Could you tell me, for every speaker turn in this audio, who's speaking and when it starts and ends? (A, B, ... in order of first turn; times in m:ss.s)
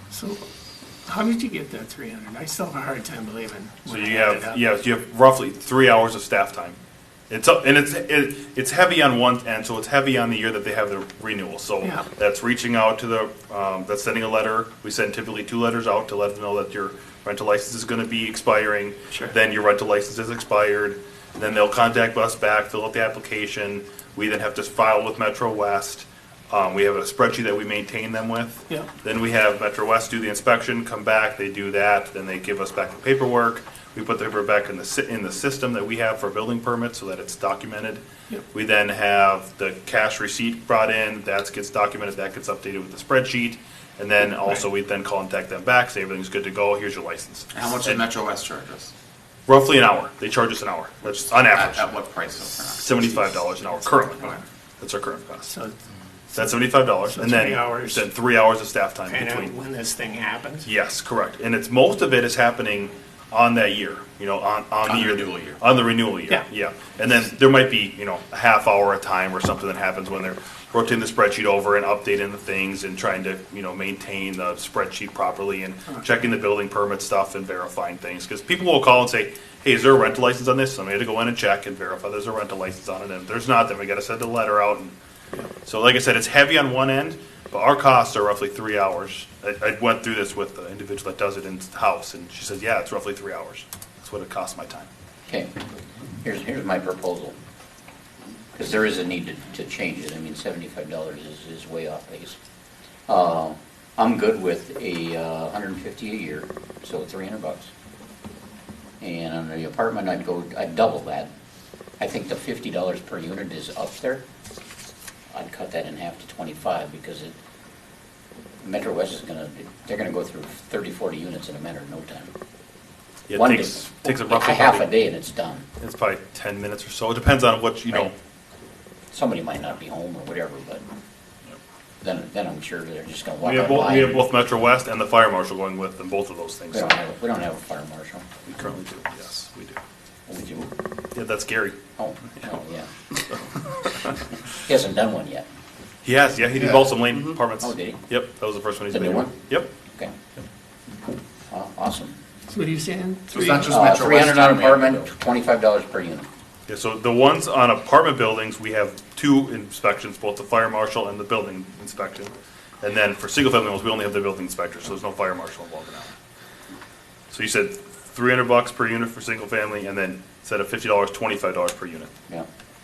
0:00.1-0:00.4 A
0:01.1-0:04.6 A
0:03.9-0:06.8 B
0:07.3-0:48.1 B
0:47.5-0:48.9 C
0:49.5-0:51.9 B
0:51.4-0:53.1 C
0:52.7-0:55.6 B
0:55.5-0:55.7 A
0:56.3-0:59.6 B
0:57.1-0:58.1 A
0:59.1-1:00.7 A
1:00.6-1:24.9 B
1:04.8-1:05.7 C
1:25.6-1:34.9 B
1:35.3-1:35.7 D
1:36.2-1:37.4 D
1:38.6-1:42.4 D
1:43.1-1:47.7 D
1:49.0-1:51.3 D
1:52.0-1:54.2 D
1:55.3-1:57.4 D
1:58.6-2:02.3 D
2:03.3-2:04.9 B
2:03.3-2:05.6 D
2:05.8-2:08.2 B
2:09.1-2:10.8 D
2:12.0-2:14.2 D
2:13.4-2:17.0 B
2:16.7-2:18.3 D
2:18.4-2:19.8 B
2:20.3-2:20.7 D
2:21.1-2:21.8 B
2:22.0-2:22.9 D
2:23.1-2:24.2 B
2:24.7-2:25.5 D
2:26.0-2:29.7 B
2:27.5-2:28.0 D
2:28.9-2:29.3 D
2:29.9-2:30.2 D
2:31.5-2:32.2 D
2:32.5-2:33.7 A
2:33.3-2:35.1 C
2:33.4-2:33.8 B
2:33.7-2:36.3 D
2:36.7-2:46.1 B
2:47.3-2:52.1 B